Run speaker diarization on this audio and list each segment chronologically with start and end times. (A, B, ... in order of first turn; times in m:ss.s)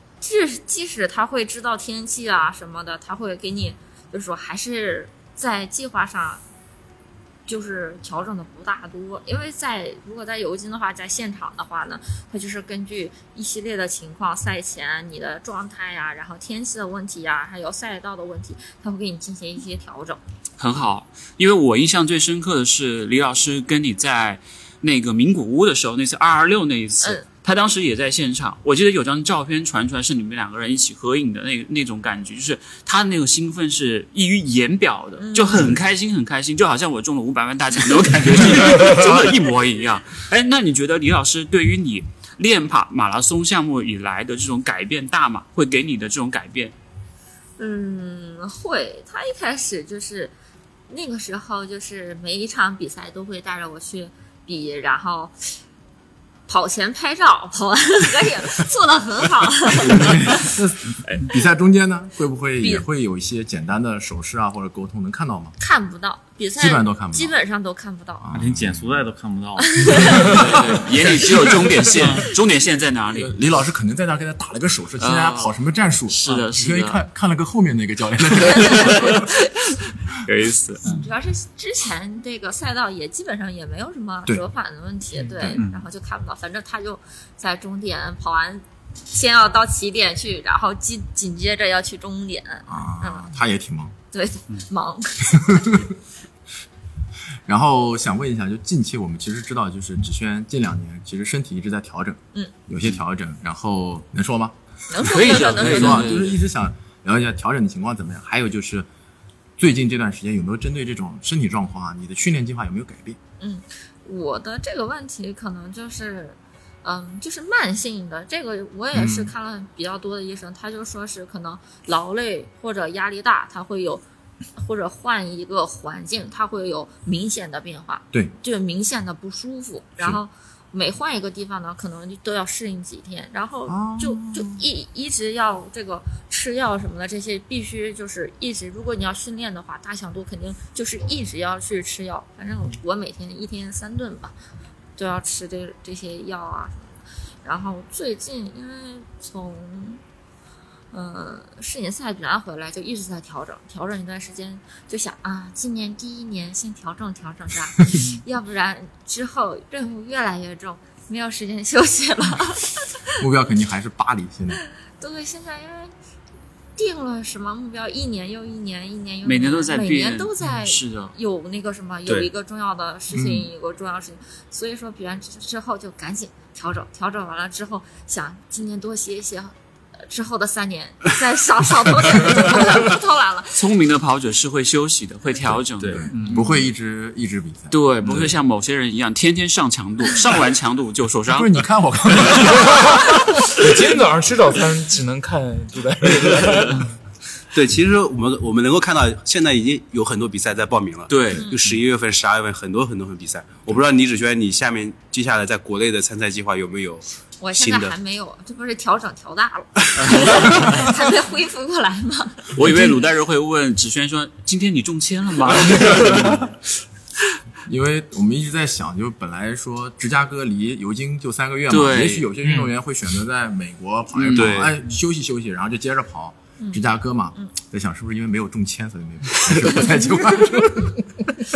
0:00.2-0:06.4 A
0:07.5-0:20.2 A
0:20.6-0:46.8 B
0:35.2-0:35.7 A
0:38.6-0:39.1 C
0:47.6-0:50.3 A
0:50.9-0:55.5 A
0:56.5-1:00.5 A
0:59.8-1:05.5 D
1:05.6-1:08.3 A
1:06.6-1:07.4 D
1:08.2-1:09.1 D
1:08.3-1:10.6 C
1:09.6-1:10.6 A
1:10.1-1:13.3 B
1:10.2-1:11.7 D
1:11.9-1:12.3 C
1:13.1-1:19.3 D
1:15.0-1:15.5 B
1:16.1-1:17.0 B
1:18.5-1:19.3 B
1:18.7-1:19.0 A
1:20.2-1:20.8 B
1:20.8-1:21.1 C
1:20.9-1:33.3 A
1:25.6-1:25.8 C
1:32.7-1:33.9 D
1:34.1-1:35.8 A
1:35.5-1:35.8 D
1:37.5-1:44.5 D
1:44.9-1:46.4 A
1:45.0-1:46.4 B
1:45.2-1:48.9 D
1:49.6-1:53.2 D
1:53.4-2:04.0 A
1:58.9-1:59.3 D
2:04.6-2:24.3 A
2:13.7-2:14.6 D
2:25.0-2:26.9 A
2:27.4-2:30.0 A
2:30.9-2:43.0 A
2:43.2-2:44.6 D
2:45.0-2:45.9 A
2:46.8-3:03.6 A
2:49.2-2:51.2 B
2:53.1-2:53.5 D
3:03.6-3:06.0 B
3:05.8-3:06.5 C
3:05.9-3:08.3 D
3:07.7-3:11.6 B
3:11.3-3:13.4 D
3:12.4-3:16.9 E
3:17.5-3:28.0 F
3:21.1-3:21.5 B
3:27.4-3:32.8 A
3:30.2-3:30.6 B
3:32.6-3:36.5 B
3:37.7-3:51.0 D
3:41.7-3:42.3 B
3:44.2-3:44.7 B
3:44.3-3:44.8 F
3:46.6-3:47.5 A